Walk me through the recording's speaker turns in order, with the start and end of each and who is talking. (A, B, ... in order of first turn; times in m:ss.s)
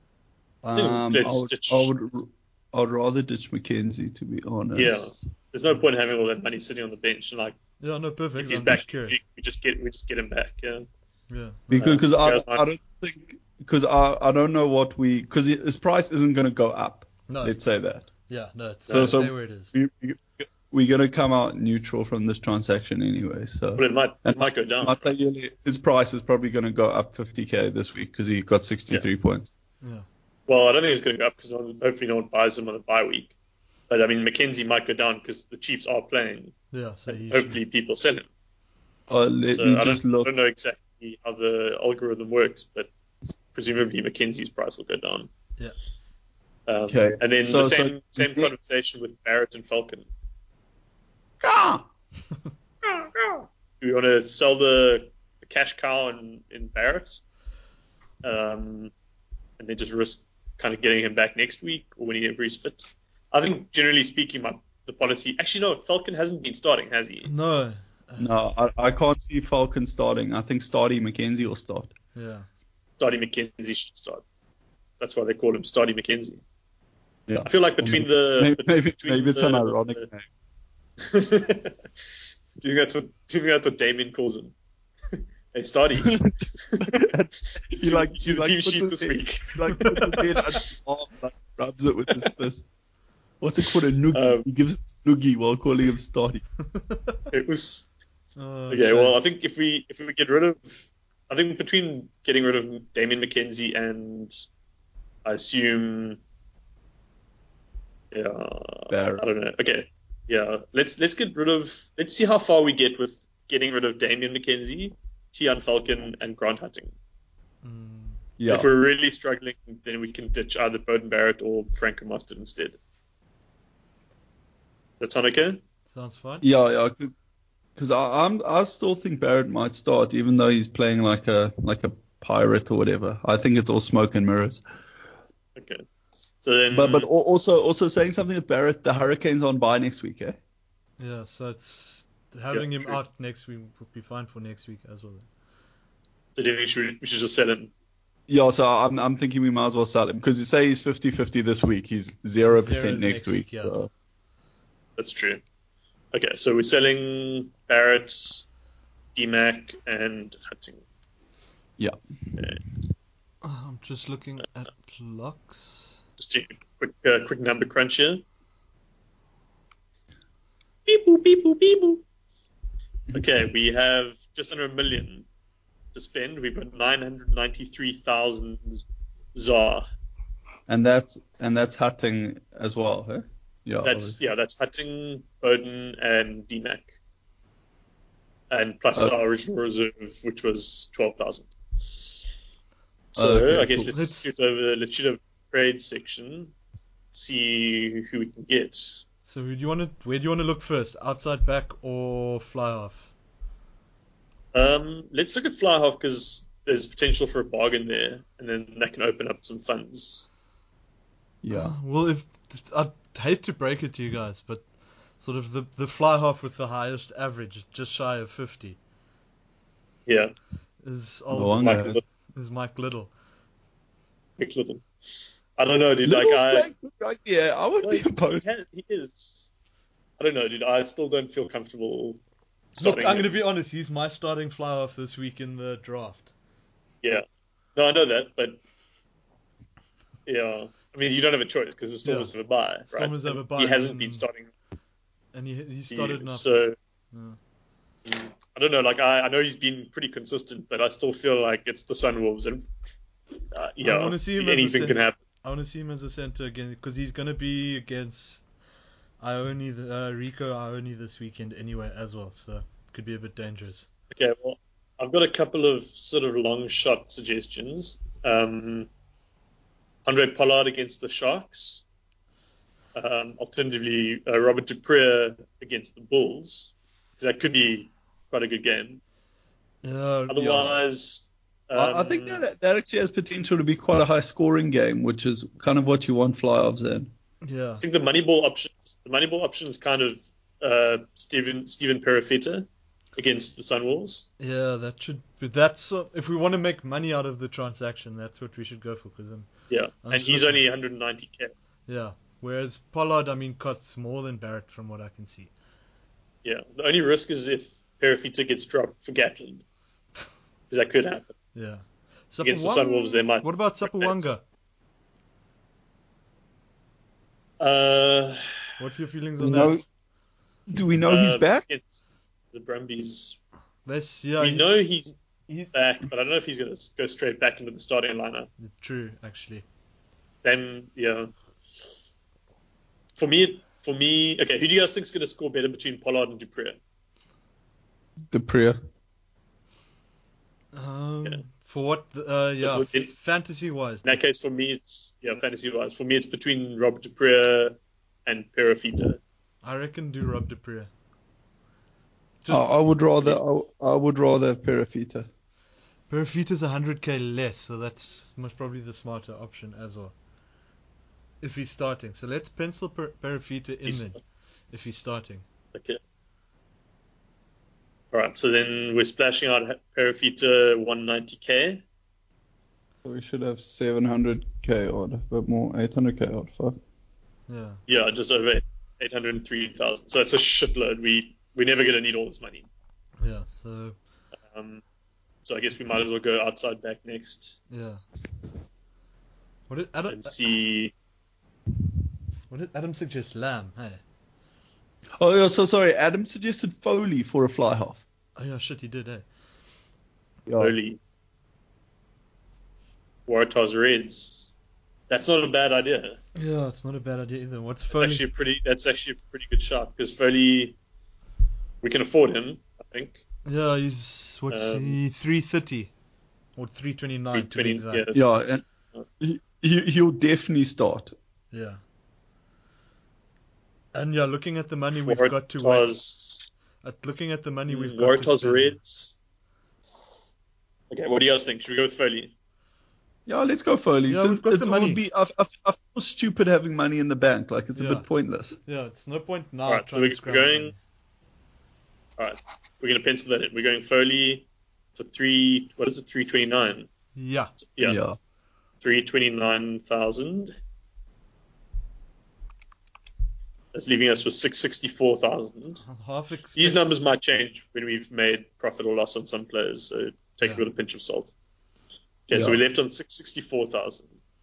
0:00.6-0:05.2 A
0:00.8-0:01.9 B
0:04.7-0:07.6 B
0:07.8-0:09.2 C
0:08.4-0:10.8 B
0:11.3-0:12.0 C
0:11.7-0:18.1 A
0:11.7-0:12.6 B
0:17.3-0:17.6 C
0:18.3-0:19.7 C
0:18.9-0:19.1 B
0:18.9-0:29.5 A
0:23.8-0:25.1 B
0:29.8-0:30.0 C
0:30.5-0:33.3 B
0:33.9-0:36.6 B
0:36.7-0:37.6 C
0:37.1-0:38.3 B
0:39.1-0:40.3 A
0:39.5-0:42.9 B
0:43.5-0:45.3 B
0:46.7-0:50.0 B
0:46.9-0:48.5 A
0:51.4-0:51.8 A
0:53.8-0:57.2 B
0:58.2-0:58.9 B
0:59.6-1:07.3 B
1:07.2-1:08.3 C
1:08.2-1:11.9 A
1:12.1-1:12.5 C
1:13.0-1:14.2 B
1:15.0-1:16.4 B
1:17.3-1:20.2 A
1:17.4-1:20.0 B
1:21.0-1:24.5 B
1:25.1-1:30.6 B
1:26.0-1:32.7 A
1:29.7-1:30.2 C
1:33.4-1:36.4 A
1:34.1-1:34.4 B
1:36.7-1:37.2 C
1:37.3-1:37.9 B
1:38.4-1:39.2 C
1:38.7-1:44.3 B
1:45.2-1:46.2 B
1:48.1-1:56.9 B
1:48.9-1:49.2 A
1:57.6-1:58.2 C
1:58.4-1:58.7 A
1:58.5-2:02.8 B
2:05.0-2:05.6 B
2:05.8-2:06.4 C
2:06.4-2:07.1 A
2:07.8-2:14.6 A
2:15.6-2:15.8 B
2:16.4-2:17.1 B
2:16.7-2:20.4 A
2:21.0-2:25.3 C
2:22.5-2:23.0 B
2:26.4-2:27.7 B
2:28.3-2:33.9 A
2:32.4-2:33.8 C
2:35.0-2:35.4 B
2:36.1-2:38.4 B
2:39.1-2:40.8 B
2:43.4-2:46.0 C
2:46.2-2:48.2 B
2:50.8-2:52.0 B
2:53.1-2:55.3 B
2:55.9-2:58.8 B
2:59.3-2:59.8 B
3:00.7-3:04.2 A
3:03.8-3:06.9 B
3:08.5-3:12.2 B
3:13.1-3:16.5 B
3:13.2-3:13.9 A
3:13.9-3:14.3 C
3:17.1-3:19.0 B
3:19.2-3:23.1 C
3:24.5-3:30.3 B
3:31.4-3:31.8 A
3:31.5-3:38.8 C
3:40.0-3:40.3 B
3:40.8-3:43.1 C
3:41.3-3:42.0 A
3:41.5-3:42.0 B
3:44.4-3:46.7 B
3:46.0-3:48.4 A
3:47.8-3:49.5 B
3:50.2-3:52.2 B
3:52.7-3:53.4 B
3:52.8-3:56.3 C
3:57.7-3:58.6 B
4:00.2-4:04.5 B
4:02.0-4:02.3 C
4:02.9-4:04.2 C
4:05.3-4:06.5 C
4:05.9-4:06.8 B
4:07.1-4:07.4 C
4:08.0-4:12.6 B
4:13.5-4:15.2 B
4:13.8-4:18.5 C
4:19.2-4:23.9 C
4:24.1-4:28.9 B
4:30.0-4:31.8 B
4:32.9-4:39.0 B
4:39.8-4:40.7 C
4:40.3-4:42.4 B
4:41.8-4:47.1 A
4:47.4-4:47.8 C
4:47.8-4:54.3 B
4:54.4-5:00.6 C
4:59.7-5:01.5 B
5:01.9-5:05.5 C
5:06.4-5:09.6 B
5:10.7-5:11.4 B
5:11.5-5:14.4 C
5:12.4-5:14.3 B
5:17.6-5:18.6 B
5:18.8-5:19.8 C
5:19.4-5:19.8 A
5:20.7-5:21.6 A
5:21.0-5:22.0 B
5:22.5-5:23.4 B
5:23.8-5:24.7 C
5:24.4-5:25.1 B
5:25.7-5:28.5 B
5:28.6-5:29.6 C
5:30.4-5:32.0 B
5:33.2-5:36.8 B
5:38.3-5:38.8 A
5:40.7-5:44.2 C
5:42.6-5:43.1 B
5:44.0-5:49.2 B
5:49.6-5:50.9 C
5:52.4-5:52.8 C
5:52.5-5:55.3 A
5:56.1-6:00.1 C
6:01.4-6:05.4 C
6:03.8-6:04.2 B
6:05.7-6:06.0 B
6:08.1-6:11.8 B
6:13.0-6:16.8 A
6:17.5-6:17.8 C
6:17.9-6:22.7 B
6:23.2-6:24.0 C
6:24.5-6:24.8 B
6:25.4-6:27.6 B
6:27.7-6:28.0 C
6:29.7-6:30.3 C
6:30.1-6:30.9 B
6:32.5-6:34.0 C
6:35.2-6:38.0 A
6:38.4-6:39.2 C
6:40.5-6:40.7 A
6:40.6-6:41.0 B
6:43.3-6:44.5 B
6:45.1-6:46.2 B
6:46.4-6:48.2 C
6:47.9-6:50.8 B
6:51.8-6:53.2 B
6:53.4-6:55.9 C
6:54.5-6:55.0 B
6:56.6-6:58.1 C
6:57.3-6:58.3 B
6:58.1-6:58.6 A
6:59.2-7:01.1 A
7:01.5-7:01.8 C
7:03.9-7:05.9 C
7:04.9-7:06.5 B
7:06.8-7:08.8 C
7:07.7-7:09.2 B
7:10.9-7:12.3 B
7:13.3-7:18.6 A
7:14.1-7:15.0 C
7:17.8-7:18.1 C
7:18.6-7:20.8 C
7:19.7-7:20.7 B
7:22.2-7:26.9 B
7:27.1-7:27.5 C
7:27.6-7:28.0 B
7:27.8-7:28.2 A
7:28.8-7:30.5 B
7:33.7-7:35.8 B
7:35.8-7:36.8 C
7:36.5-7:41.3 B
7:42.3-7:44.1 B
7:42.3-7:42.6 A